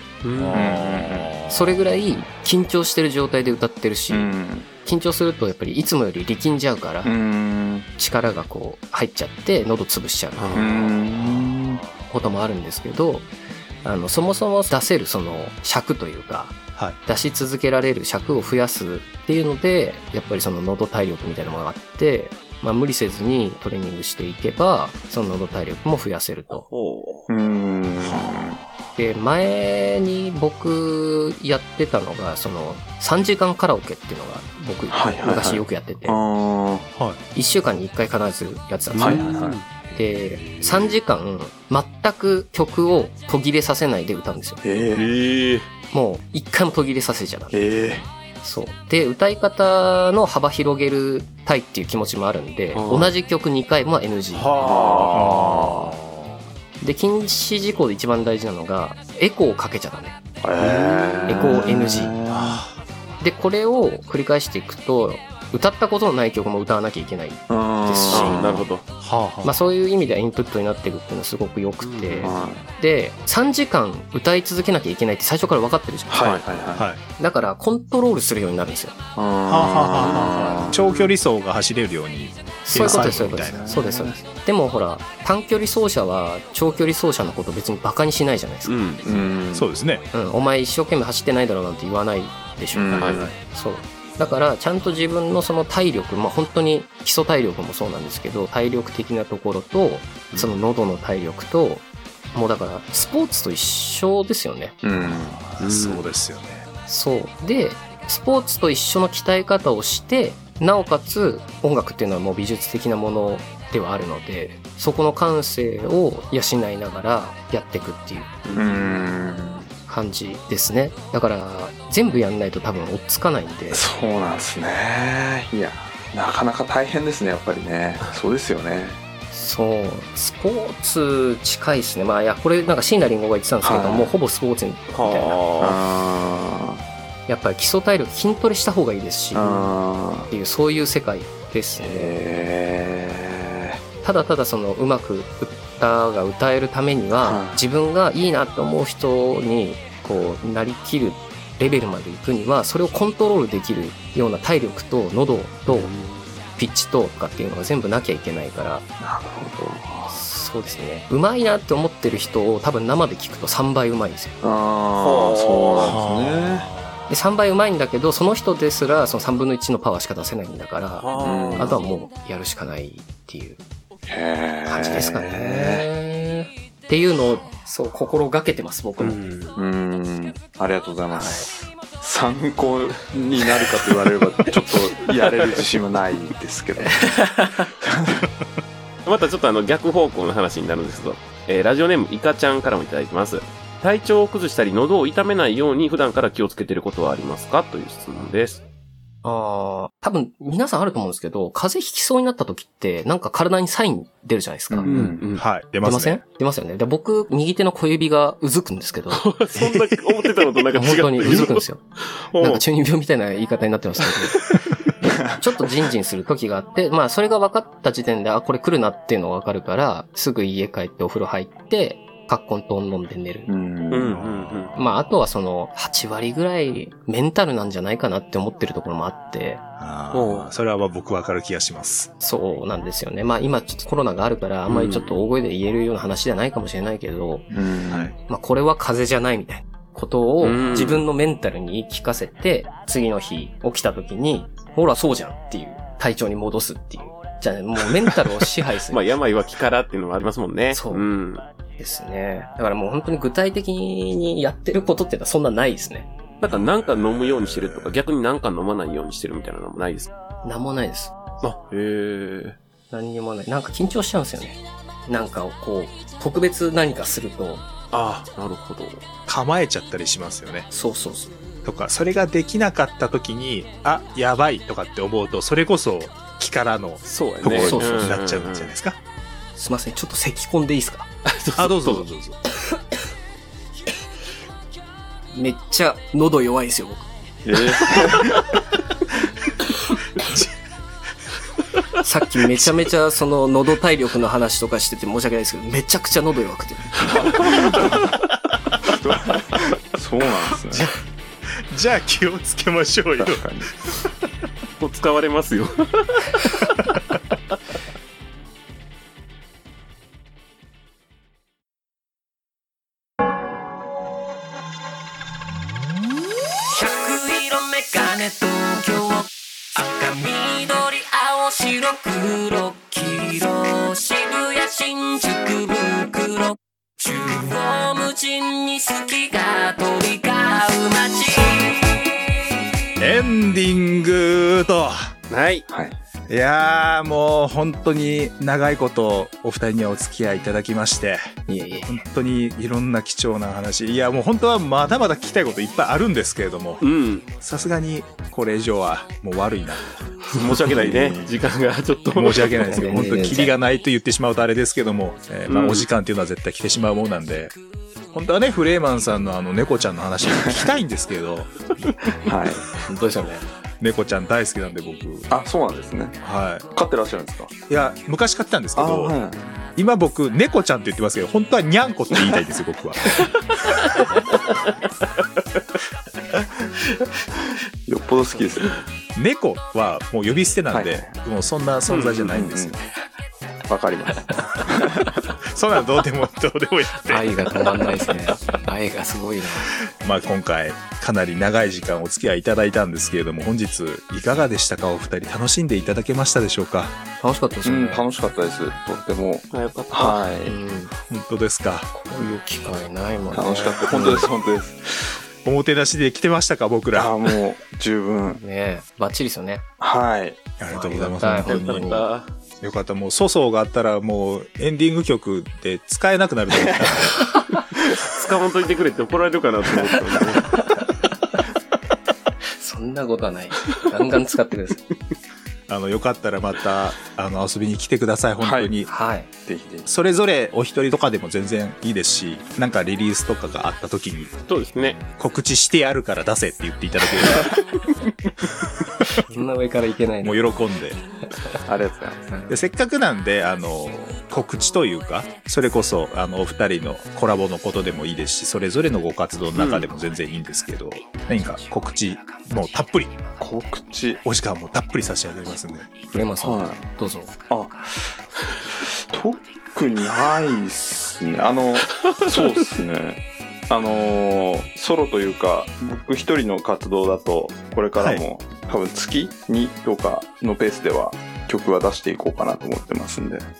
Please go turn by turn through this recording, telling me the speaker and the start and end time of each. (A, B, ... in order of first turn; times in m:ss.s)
0:00.2-0:00.8 A
0:00.3-0:01.8 B
0:00.5-0:01.3 C
0:01.5-0:07.1 D
0:04.1-0:04.7 C
0:07.0-0:07.9 C
0:08.0-0:11.0 D
0:10.4-0:10.7 A
0:10.5-0:11.8 C
0:12.0-0:13.3 D
0:13.8-0:26.7 D
0:26.7-0:27.3 A
0:27.3-0:28.6 C
0:29.0-0:36.2 D
0:34.9-0:36.9 C
0:37.4-0:39.2 D
0:39.0-0:39.7 A
0:39.0-0:39.6 C
0:39.9-0:44.6 D
0:44.6-0:45.1 C
0:44.9-0:45.7 A
0:45.9-0:47.6 D
0:47.5-0:48.1 C
0:48.4-0:54.5 D
0:52.7-0:53.1 A
0:54.4-0:55.3 A
0:54.6-0:56.0 C
0:55.1-0:56.4 B
0:56.8-1:00.2 D
1:00.4-1:02.6 C
1:00.6-1:01.7 A
1:01.3-1:02.1 D
1:02.3-1:02.7 B
1:03.2-1:08.6 D
1:07.5-1:08.7 C
1:08.1-1:08.8 A
1:09.0-1:09.6 B
1:09.4-1:16.4 D
1:11.8-1:12.4 A
1:12.2-1:12.6 C
1:16.1-1:16.9 C
1:16.8-1:17.0 B
1:17.2-1:19.0 D
1:19.2-1:20.8 C
1:19.5-1:23.9 B
1:20.0-1:21.2 A
1:22.6-1:29.2 D
1:22.8-1:24.2 C
1:28.6-1:29.0 A
1:29.0-1:29.7 C
1:29.5-1:30.0 B
1:30.1-1:44.8 D
1:32.7-1:33.3 C
1:32.9-1:33.3 A
1:44.8-1:45.4 C
1:45.0-1:46.7 B
1:45.6-1:46.0 A
1:46.9-1:58.4 D
1:58.4-1:58.9 A
1:58.6-1:59.7 C
1:59.9-2:03.8 D
2:03.7-2:09.0 C
2:09.3-2:15.4 D
2:13.6-2:14.1 C
2:14.9-2:15.8 A
2:15.6-2:16.8 C
2:17.3-2:19.7 D
2:19.3-2:20.3 C
2:20.3-2:22.2 D
2:21.8-2:23.8 C
2:24.0-2:35.9 D
2:27.2-2:27.6 C
2:35.7-2:36.4 A
2:36.6-2:38.8 D
2:39.0-2:40.2 C
2:40.1-2:44.4 D
2:44.4-2:46.7 C
2:45.0-2:46.0 A
2:45.8-2:47.1 B
2:47.1-2:53.6 D
2:51.0-2:51.8 A
2:51.2-2:51.8 C
2:54.1-2:55.9 C
2:54.7-2:59.2 D
2:59.0-2:59.6 A
2:59.6-3:07.2 C
3:01.1-3:01.5 D
3:07.0-3:07.7 D
3:07.8-3:08.3 C
3:09.1-3:18.6 A
3:19.2-3:24.9 D
3:24.7-3:25.2 C
3:24.9-3:25.4 A
3:25.4-3:26.2 B
3:25.8-3:29.2 D
3:29.1-3:31.6 A
3:29.6-3:30.2 B
3:30.7-3:31.8 D
3:32.2-3:32.6 A
3:32.4-3:34.4 D
3:35.0-3:43.5 D
3:43.5-3:44.2 C
3:43.9-3:44.7 A
3:44.0-3:44.8 B
3:44.8-3:49.6 D
3:49.8-3:52.1 B
3:50.1-3:50.5 A
3:52.2-3:57.5 D
3:54.7-3:55.1 A
3:57.5-3:58.2 C
3:57.9-3:58.1 B
3:58.3-4:09.0 D
4:00.4-4:01.0 A
4:08.9-4:11.4 A
4:10.7-4:11.0 D
4:11.8-4:16.1 D
4:16.4-4:20.1 A
4:20.4-4:21.2 D
4:21.4-4:22.6 A
4:22.9-4:27.6 D
4:27.9-4:29.0 A
4:29.3-4:30.7 B
4:30.7-4:31.3 D
4:31.6-4:39.0 B
4:37.0-4:38.7 A
4:37.4-4:37.8 C
4:37.7-4:38.1 D
4:39.6-4:41.1 D
4:41.3-4:42.0 A
4:41.6-4:42.4 B
4:45.3-4:47.1 D
4:47.4-4:48.5 C
4:52.0-4:57.1 D
4:57.0-4:58.1 C
4:58.8-5:00.9 C
5:01.7-5:03.5 B
5:03.2-5:03.7 C
5:04.8-5:06.5 A
5:16.7-5:31.9 E
5:33.0-5:35.1 B
5:35.3-5:35.6 A
5:35.7-5:36.0 C
5:36.3-5:41.3 B
5:41.5-5:42.0 D
5:41.8-5:50.1 B
5:46.8-5:47.2 A
5:50.3-5:52.8 A
5:50.7-5:51.3 C
5:52.1-5:57.6 B
5:52.6-5:53.6 D
5:55.5-5:55.9 A
5:58.1-6:01.6 B
6:02.2-6:02.7 C
6:02.9-6:03.4 D
6:03.8-6:05.3 B
6:05.3-6:06.2 C
6:06.2-6:06.7 B
6:06.8-6:07.5 C
6:07.7-6:09.2 B
6:08.8-6:09.6 C
6:09.8-6:13.3 B
6:17.9-6:18.8 C
6:19.2-6:22.8 B
6:20.7-6:21.1 C
6:21.9-6:22.4 A
6:22.3-6:22.8 C
6:23.7-6:25.2 C
6:25.5-6:27.8 B
6:27.0-6:29.7 D
6:29.9-6:37.0 B
6:37.2-6:38.0 D
6:37.6-6:40.6 C
6:39.5-6:40.2 A
6:40.4-6:40.9 D
6:41.1-6:41.9 B
6:41.9-6:44.3 D
6:43.3-6:45.1 C
6:45.4-6:47.2 B
6:46.9-6:48.4 C
6:48.4-6:49.6 D
6:49.8-6:50.5 C
6:50.6-6:51.9 B
6:50.7-6:52.1 D
6:51.5-6:52.3 A
6:52.6-6:57.2 B
6:58.0-7:00.6 A
7:02.6-7:04.8 D
7:05.7-7:08.9 B
7:08.4-7:08.7 C
7:08.9-7:09.3 D
7:09.4-7:09.9 C
7:09.9-7:14.3 B
7:14.5-7:15.0 A
7:15.2-7:17.6 B
7:19.3-7:20.5 D
7:20.2-7:21.0 B
7:21.7-7:22.2 C
7:22.3-7:22.6 D
7:22.5-7:33.2 B
7:29.6-7:29.9 A
7:33.4-7:34.2 C
7:34.2-7:35.9 B
7:36.1-7:37.3 D
7:36.4-7:36.8 C
7:37.5-7:38.1 C
7:39.0-7:53.4 C
7:48.0-7:48.2 B